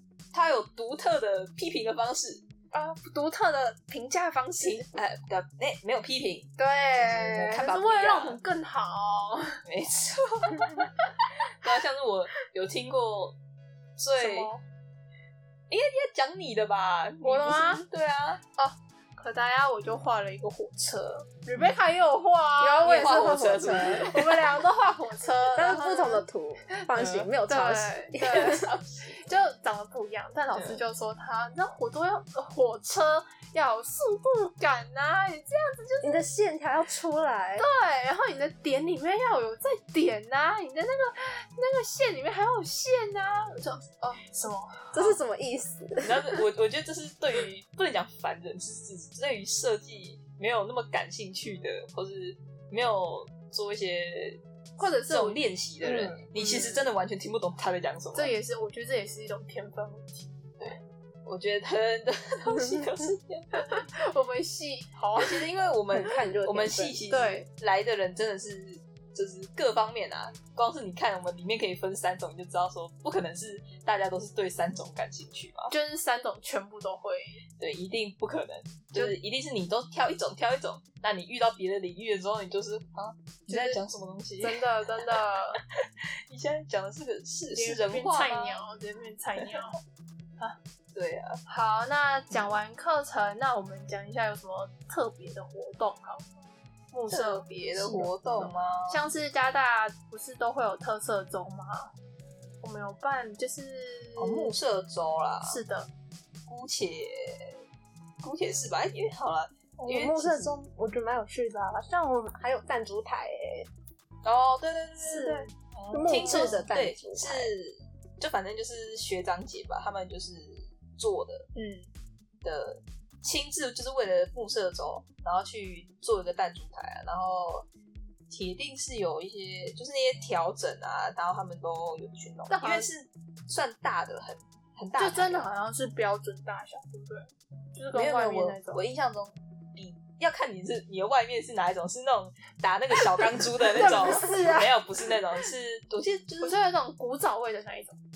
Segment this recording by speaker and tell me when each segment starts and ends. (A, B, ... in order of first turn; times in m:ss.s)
0:00.3-0:02.4 A
0:02.7-0:04.9 B
0:04.6-0:08.4 A
0:06.6-0:09.6 B
0:09.6-0:10.9 A
0:10.6-0:11.3 B
0:11.4-0:13.4 A
0:14.0-0:14.5 A
0:14.2-0:14.6 B
0:15.7-0:18.4 A
0:17.2-0:17.8 B
0:18.6-0:26.2 B
0:22.6-0:24.1 C
0:22.8-0:24.5 A
0:25.5-0:28.7 C
0:26.8-0:36.2 B
0:27.0-0:27.3 A
0:28.2-0:29.2 A
0:36.0-0:37.6 C
0:37.6-0:45.1 B
0:44.9-0:46.4 C
0:46.0-0:58.3 A
0:54.8-0:55.4 B
0:55.8-0:56.2 C
0:56.3-0:56.9 B
0:58.1-1:00.4 B
1:00.6-1:03.8 A
1:03.6-1:05.4 B
1:05.2-1:15.7 A
1:05.9-1:07.0 C
1:07.1-1:07.4 B
1:15.7-1:17.4 B
1:17.6-1:25.2 A
1:23.5-1:23.8 B
1:24.4-1:25.6 B
1:25.8-1:28.6 A
1:27.5-1:29.8 B
1:30.9-1:31.4 A
1:31.4-1:36.3 B
1:32.3-1:32.6 A
1:36.9-1:41.9 B
1:37.1-1:39.0 A
1:42.6-1:44.5 B
1:44.2-1:45.6 A
1:45.4-1:45.9 B
1:46.5-1:47.6 A
1:48.2-1:50.6 A
1:49.8-1:53.7 C
1:54.2-2:01.5 A
1:55.0-1:55.5 B
1:55.2-1:57.5 C
1:56.1-1:56.6 B
2:01.5-2:01.9 B
2:02.4-2:07.7 A
2:08.3-2:15.5 A
2:12.5-2:12.9 B
2:15.0-2:18.8 B
2:17.9-2:26.6 A
2:23.2-2:25.1 B
2:26.4-2:28.0 B